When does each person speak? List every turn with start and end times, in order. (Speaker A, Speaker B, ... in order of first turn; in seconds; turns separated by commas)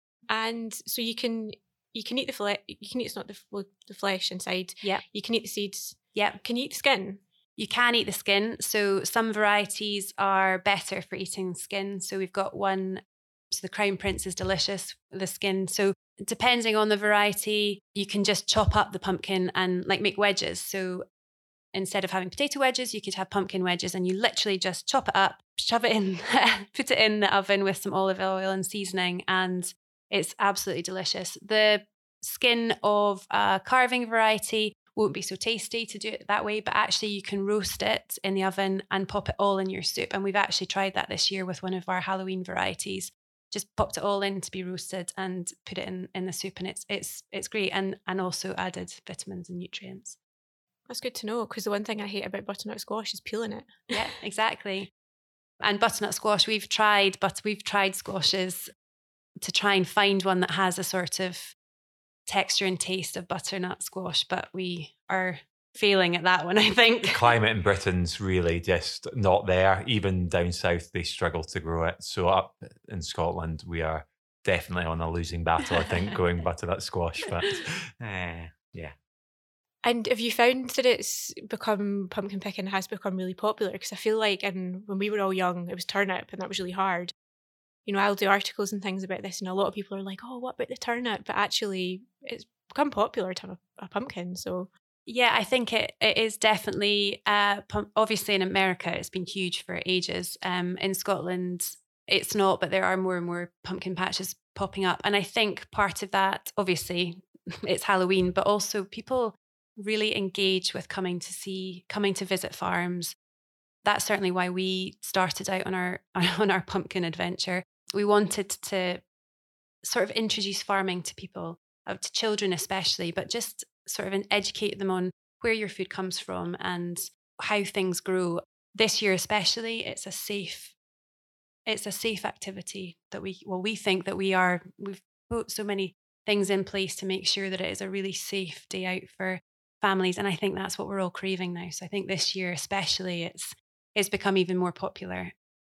Speaker A: 0.3-7.2, Speaker B: 6.1-6.4, Speaker B: 7.6-21.0, Speaker B: 21.7-50.2, Speaker A: 50.9-54.0, Speaker B: 53.9-54.9, Speaker B: 55.6-58.7, Speaker B: 59.4-61.5, Speaker B: 62.2-67.3, Speaker C: 67.1-78.9, Speaker A: 79.8-87.1, Speaker A: 87.8-94.7, Speaker B: 95.0-113.2, Speaker B: 113.8-119.0, Speaker B: 119.8-130.7, Speaker B: 131.7-145.3